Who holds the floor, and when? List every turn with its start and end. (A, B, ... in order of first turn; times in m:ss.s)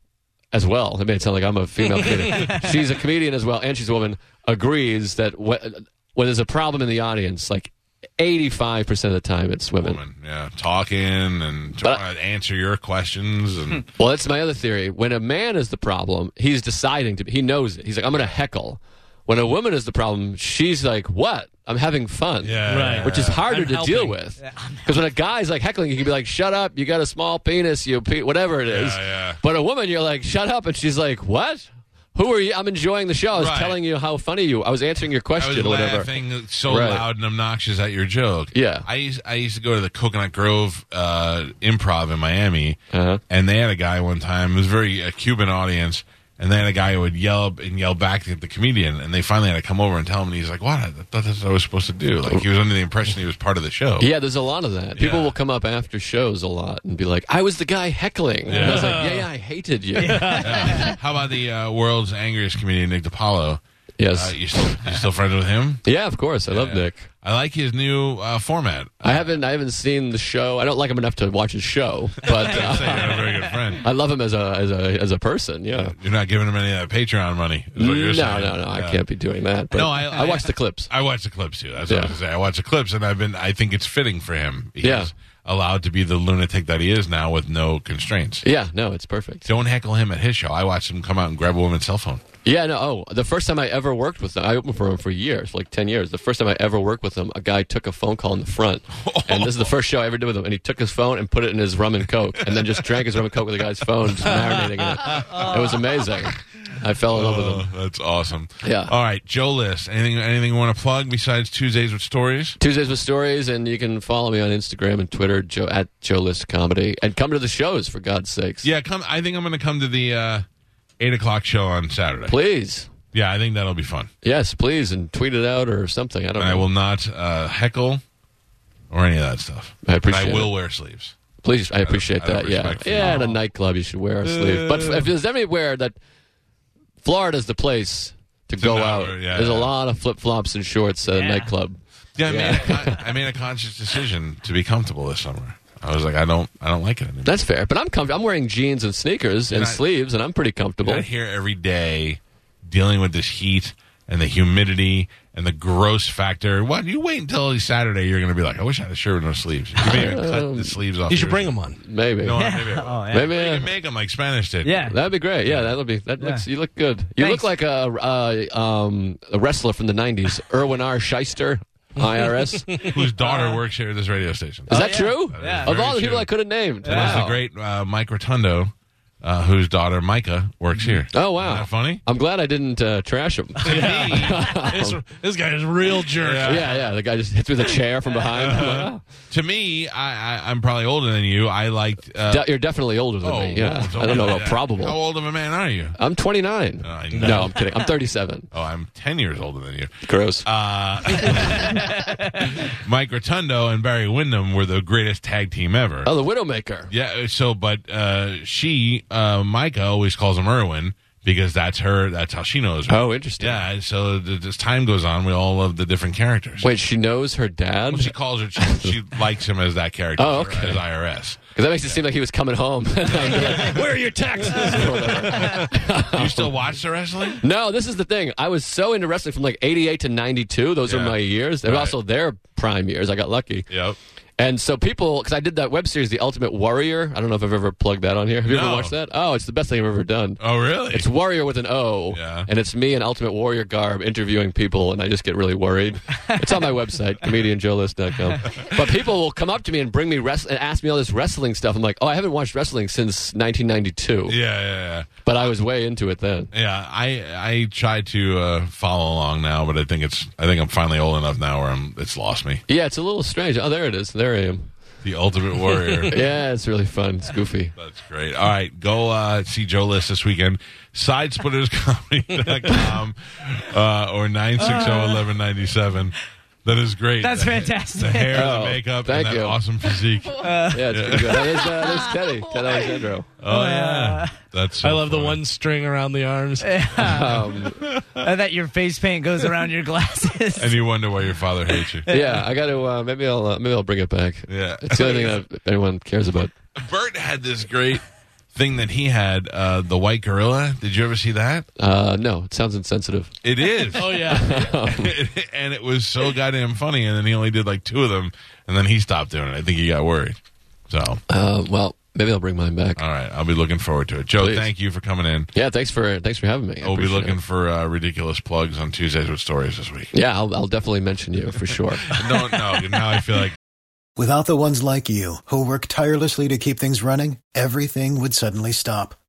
0:00.5-0:10.0 A
0:09.8-0:13.9 B
0:14.0-0:36.1 A
0:22.4-0:23.4 B
0:22.7-0:24.2 C
0:24.4-0:25.0 D
0:28.7-0:29.4 B
0:33.4-0:33.8 B
0:35.4-0:42.8 B
0:36.6-0:37.0 A
0:38.5-0:38.8 A
0:42.9-0:43.2 A
0:43.3-0:54.1 B
0:54.0-1:00.9 A
0:55.0-0:55.3 B
0:58.5-0:59.1 B
0:58.5-0:59.2 C
1:00.0-1:01.0 D
1:00.1-1:00.4 C
1:00.4-1:03.6 B
1:04.0-1:05.0 A
1:04.1-1:05.8 B
1:05.8-1:07.0 A
1:06.5-1:09.4 B
1:09.0-1:15.9 A
1:12.2-1:13.8 B
1:12.6-1:13.4 D
1:15.9-1:19.0 B
1:17.8-1:20.9 A
1:19.7-1:28.4 B
1:21.9-1:22.1 A
1:24.8-1:25.1 A
1:28.4-1:29.5 A
1:29.4-1:32.2 B
1:32.4-1:47.7 A
1:39.0-1:39.7 B
1:42.4-1:42.8 B
1:45.0-1:45.6 B
1:47.1-1:52.6 B
1:48.6-1:48.9 A
1:52.6-1:58.7 A
1:58.6-2:00.4 B
2:01.0-2:02.4 B
2:02.3-2:02.9 A
2:03.1-2:04.1 B
2:04.2-2:06.6 A
2:06.4-2:08.0 B
2:08.9-2:11.1 B
2:09.8-2:10.5 A
2:11.4-2:16.0 A
2:11.8-2:13.2 B
2:13.1-2:13.4 D
2:14.3-2:15.0 B
2:17.0-2:23.0 A
2:18.6-2:19.7 B
2:21.0-2:21.5 D
2:22.2-2:27.4 B
2:27.2-2:31.0 A
2:29.5-2:29.8 B
2:30.8-2:41.5 B
2:39.8-2:40.7 A
2:41.1-2:41.8 C
2:41.8-2:42.4 A
2:42.2-2:44.8 B
2:42.4-2:43.3 D
2:43.1-2:43.7 A
2:44.6-2:45.0 D
2:44.8-2:52.7 A
2:45.4-2:45.7 B
2:46.2-2:46.4 D
2:47.2-2:47.5 D
2:52.8-2:56.3 B
2:53.3-2:53.6 D
2:54.7-2:55.7 D
2:54.7-2:57.4 A
2:56.8-2:57.2 D
2:56.8-3:02.0 B
3:01.1-3:05.0 A
3:03.6-3:06.7 C
3:03.6-3:04.4 B
3:06.2-3:06.7 B
3:06.4-3:09.0 A
3:08.3-3:12.5 B
3:12.3-3:15.0 A
3:13.2-3:16.0 B
3:16.0-3:18.5 A
3:16.8-3:17.6 B
3:17.1-3:17.5 C
3:18.5-3:26.1 B
3:20.0-3:20.4 A
3:21.6-3:22.3 D
3:26.0-3:26.9 A
3:26.9-3:36.7 B
3:32.9-3:33.6 A
3:36.6-3:38.9 A
3:37.9-3:42.0 B
3:40.2-3:40.8 A
3:41.5-3:46.5 A
3:43.2-3:43.8 B
3:43.6-3:45.1 C
3:44.7-3:47.4 B
3:47.4-3:53.7 A
3:50.9-3:52.0 B
3:53.7-3:54.0 B
3:54.4-4:14.4 A
3:58.5-3:58.9 B
4:00.4-4:01.1 B
4:02.1-4:02.5 B
4:06.4-4:06.6 D
4:08.4-4:08.8 B
4:14.3-4:15.1 B
4:15.2-4:16.5 A
4:16.5-4:22.6 B
4:22.7-4:24.7 A
4:25.0-4:26.2 B
4:26.1-4:27.7 A
4:27.8-4:41.8 B
4:34.6-4:35.3 D
4:37.2-4:38.4 D
4:38.3-4:39.6 A
4:40.4-4:40.8 D
4:40.6-4:43.3 A
4:41.5-4:42.2 D
4:43.4-4:45.4 B
4:43.4-4:44.3 D
4:44.8-4:46.9 C
4:46.6-4:47.3 D
4:47.0-4:47.8 A
4:47.3-4:48.2 B
4:48.2-4:50.8 D
4:50.6-4:52.1 B
4:52.1-4:52.4 D
4:52.1-4:56.5 A
4:54.5-4:55.4 B
4:56.7-4:58.0 B
4:58.5-5:01.6 B
5:01.8-5:03.3 A
5:03.4-5:10.4 B
5:03.9-5:04.6 C
5:04.0-5:05.1 A
5:10.9-5:11.2 B
5:11.3-5:13.0 A
5:13.0-5:15.5 B
5:14.4-5:14.7 A
5:15.5-5:17.4 A
5:16.8-5:20.1 B
5:20.1-5:22.1 A
5:22.1-5:23.6 B
5:24.2-5:29.2 E